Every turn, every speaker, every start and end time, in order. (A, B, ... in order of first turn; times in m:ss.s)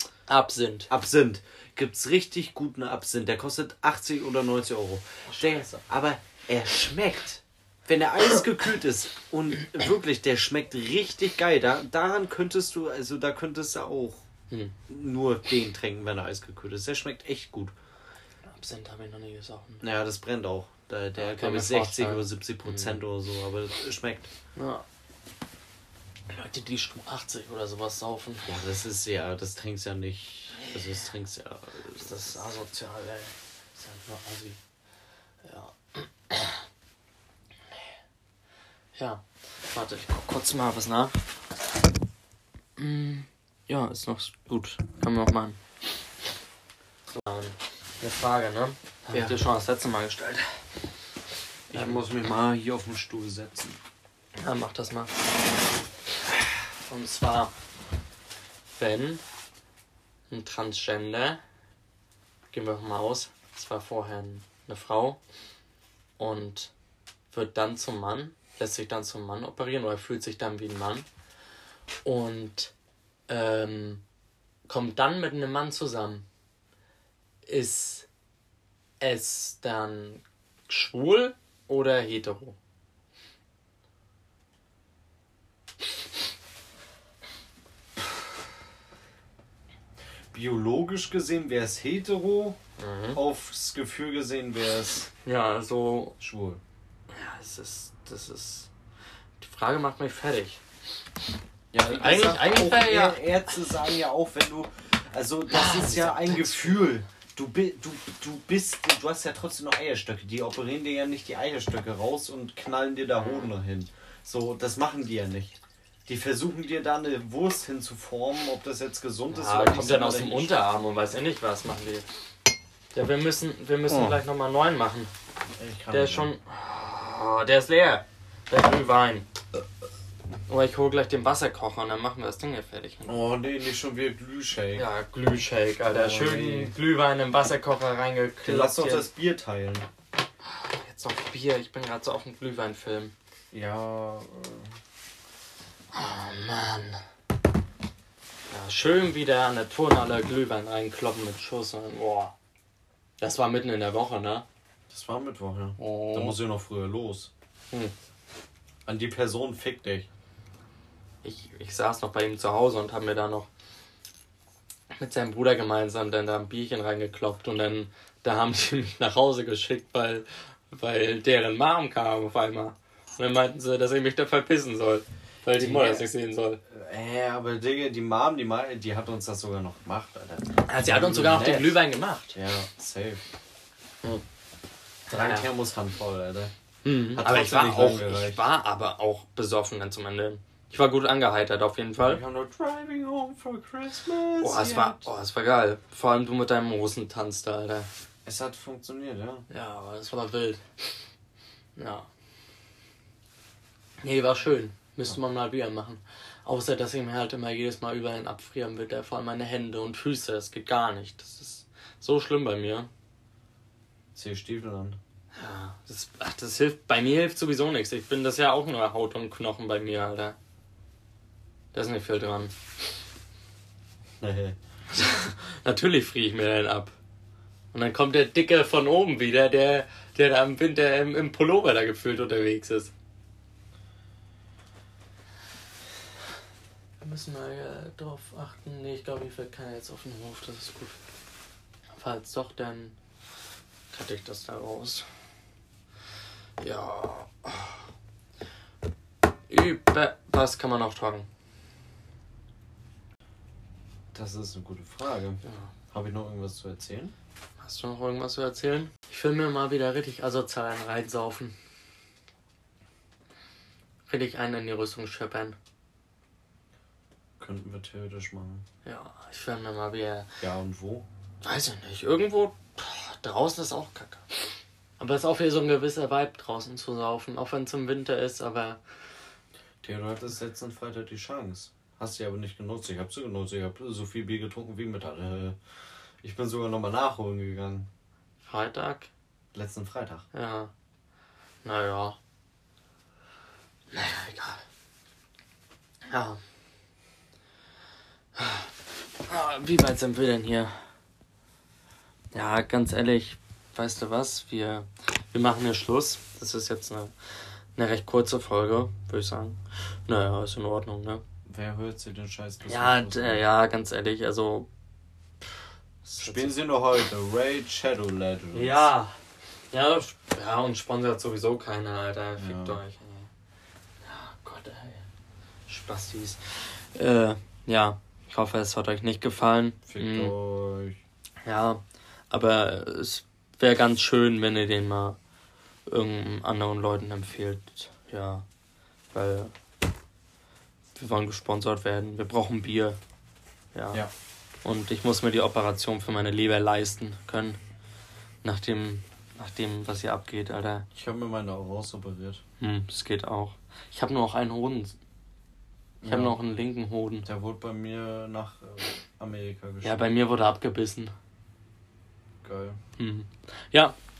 0:00.3-0:00.9 A
0:00.9-0:14.2 B
0:05.3-0:05.8 A
0:14.9-0:17.7 B
0:18.4-0:19.8 A
0:19.8-0:24.3 B
0:21.2-0:23.0 A
0:24.6-0:24.8 A
0:26.3-0:28.5 A
0:28.4-0:32.5 B
0:30.6-0:30.9 A
0:32.0-0:34.6 A
0:35.4-0:36.6 A
0:38.9-0:41.3 A
0:42.8-0:45.6 A
0:47.1-0:50.6 A
0:49.1-0:49.4 B
0:51.7-0:53.8 B
0:51.7-0:52.0 A
0:54.4-0:55.2 A
0:56.8-0:57.5 A
0:58.8-0:59.2 A
1:00.3-1:01.4 A
1:02.5-1:05.2 A
1:06.2-1:06.7 A
1:07.3-1:11.1 A
1:12.0-1:12.7 A
1:13.3-1:14.0 A
1:14.6-1:16.2 A
1:17.4-1:18.1 A
1:19.0-1:22.6 A
1:30.3-1:32.6 B
1:32.8-1:33.2 A
1:33.1-1:35.1 B
1:35.2-1:36.2 A
1:36.2-1:36.6 B
1:37.1-1:38.7 A
1:39.4-1:40.6 A
1:41.7-2:00.5 B
1:41.8-1:43.5 A
1:45.5-1:46.8 A
1:53.2-1:53.5 A
1:59.3-2:02.1 A
2:02.9-2:05.1 A
2:03.9-2:04.2 B
2:05.5-2:06.3 B
2:05.9-2:09.3 A
2:10.5-2:13.2 A
2:13.0-2:14.8 B
2:14.7-2:19.1 A
2:15.9-2:16.7 B
2:18.4-2:19.9 B
2:20.4-2:23.1 A
2:23.5-2:24.7 B
2:25.9-2:27.0 A
2:28.5-2:32.3 A
2:33.2-2:34.4 A
2:34.9-2:37.3 B
2:35.8-2:36.3 A
2:38.8-2:40.1 B
2:41.2-2:43.5 A
2:45.0-2:56.6 A
2:55.5-2:56.1 B
2:56.7-3:01.8 B
3:00.6-3:02.4 A
3:02.3-3:03.2 B
3:05.1-3:05.5 A
3:05.1-3:06.5 B
3:06.8-3:12.2 A
3:07.1-3:08.4 B
3:12.0-3:15.1 B
3:14.4-3:17.9 A
3:18.2-3:19.5 B
3:19.5-3:20.6 A
3:21.8-3:22.1 A
3:24.0-3:32.9 A
3:34.1-3:35.0 B
3:35.3-3:40.4 A
3:41.7-3:42.5 A
3:44.2-3:44.6 B
3:44.9-3:47.0 A
3:47.7-3:52.9 A
3:57.0-4:01.0 A
4:02.0-4:03.0 A
4:03.9-4:05.1 A
4:06.6-4:07.8 A
4:09.5-4:11.3 A
4:14.1-4:15.4 B
4:15.4-4:15.7 A
4:15.9-4:17.1 B
4:17.6-4:21.5 A
4:24.1-4:25.6 A
4:27.4-4:28.6 B
4:28.8-4:30.3 A
4:30.4-4:31.0 B
4:31.4-4:34.4 A
4:35.0-4:38.8 A
4:39.8-4:45.6 B
4:46.2-4:47.9 B
4:48.4-4:49.1 A
4:49.5-4:50.2 B
4:50.3-4:50.7 A
4:51.6-4:52.2 A
4:53.9-4:54.6 A
4:56.1-4:56.4 A
4:58.4-4:58.7 A
4:59.3-5:00.8 A
5:02.3-5:07.1 A
5:07.8-5:11.2 A
5:11.5-5:13.4 B
5:12.7-5:14.7 A
5:16.0-5:16.6 A
5:16.2-5:18.9 B
5:18.5-5:19.2 A
5:19.7-5:23.3 A
5:22.4-5:22.8 B
5:24.0-5:25.0 A
5:25.7-5:30.3 A
5:29.9-5:31.0 B
5:31.4-5:35.2 A
5:35.9-5:38.4 A
5:39.1-5:39.5 A
5:40.9-5:43.0 A
5:43.7-5:44.0 A
5:44.6-5:47.6 A
5:48.4-5:50.9 A
5:50.9-5:52.4 B
5:52.6-5:55.0 A
5:56.0-5:56.4 B
5:56.1-5:57.2 A
5:57.2-6:00.0 B
5:59.8-6:01.1 A
6:02.4-6:02.8 B
6:03.0-6:04.0 A